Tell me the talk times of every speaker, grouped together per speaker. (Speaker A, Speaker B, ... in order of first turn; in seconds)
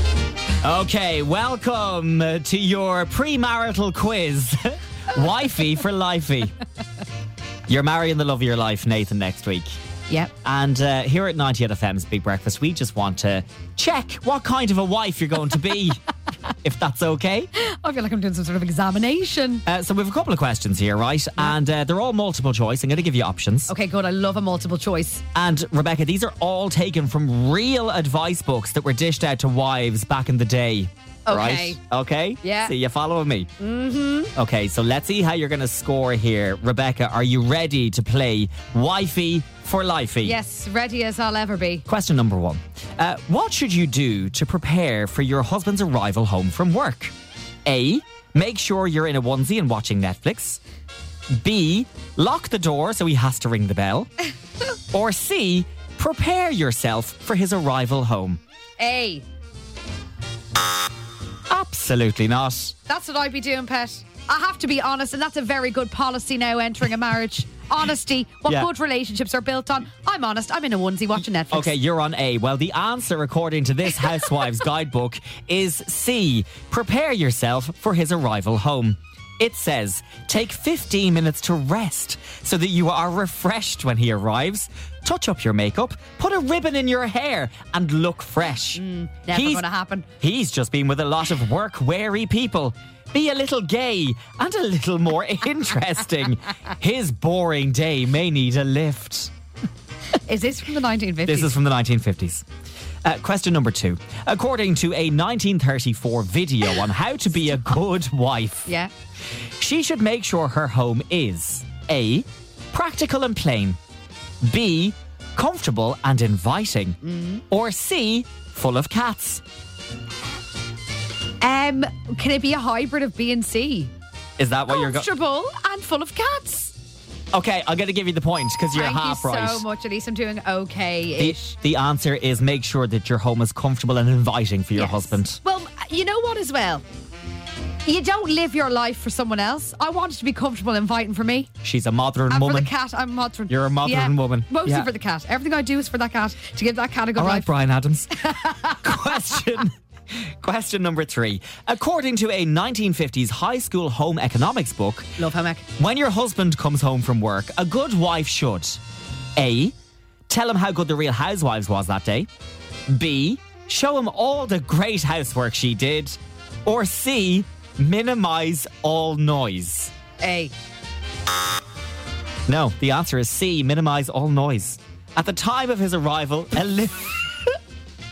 Speaker A: 0.6-6.5, 7.7-9.7, 10.4-16.0, 16.6-17.5, 19.6-23.7, 25.3-33.5, 34.4-40.4, 41.9-47.1, 47.6-50.6, 51.4-54.1, 54.9-58.4, 61.5-62.8, 71.5-89.6, 90.2-99.3, 101.2-102.4, 103.0-108.7, 109.6-113.8, 114.4-117.0, 117.5-119.4, 124.4-125.1, 127.3-129.6, 131.2-135.4, 141.6-142.7, 143.5-144.9, 147.2-148.2, 148.7-155.1, 155.8-158.8, 159.4-159.7, 160.3-162.3, 162.9-169.9, 172.5-177.6
Speaker B: 17.6-19.6, 23.7-25.2, 31.3-31.8, 32.4-32.7, 33.6-34.3, 40.2-41.8, 58.8-59.2, 62.9-71.7, 88.8-90.1, 100.2-101.5, 117.0-117.4, 121.4-123.9, 124.7-126.7, 128.7-131.5, 134.7-136.8, 137.8-141.5, 142.3-147.5, 148.3-149.2, 155.2-155.7, 170.2-170.5